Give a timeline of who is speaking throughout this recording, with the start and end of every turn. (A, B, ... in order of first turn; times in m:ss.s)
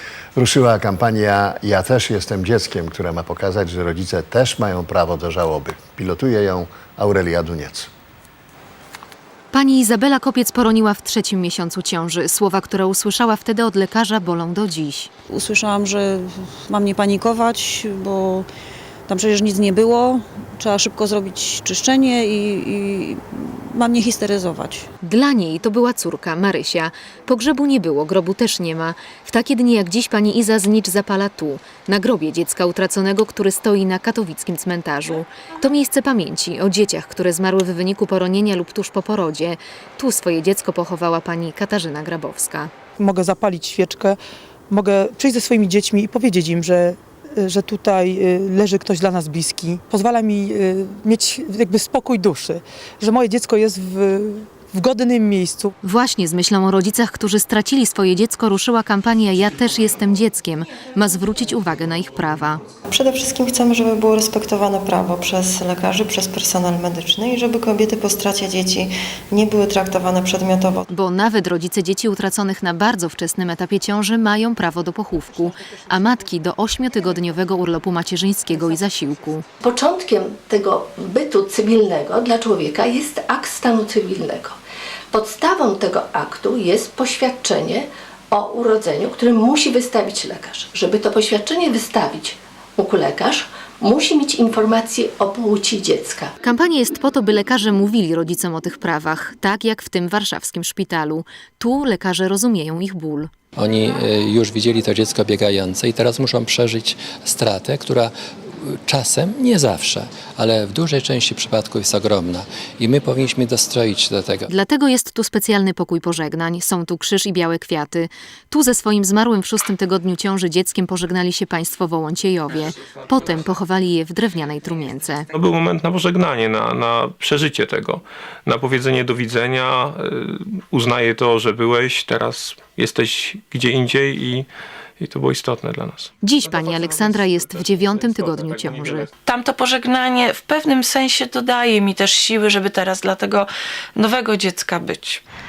0:00.4-0:07.9 A
0:09.5-0:15.1 B
0:15.3-0:18.5 C
0:19.1-0:24.9 C
0:25.0-0:42.7 B
0:43.0-0:44.2 D
0:44.7-0:55.7 D
0:55.8-1:02.6 B
1:02.9-1:10.8 E
1:10.9-1:19.4 B
1:19.6-1:24.6 F
1:25.1-1:36.3 F
1:36.4-1:43.3 B
1:43.6-1:48.1 G
1:48.6-1:54.5 G
1:54.5-2:05.3 B
2:05.3-2:14.5 H
2:15.0-2:16.1 H
2:16.2-2:19.1 B
2:18.2-2:19.0 H
2:19.2-2:25.2 I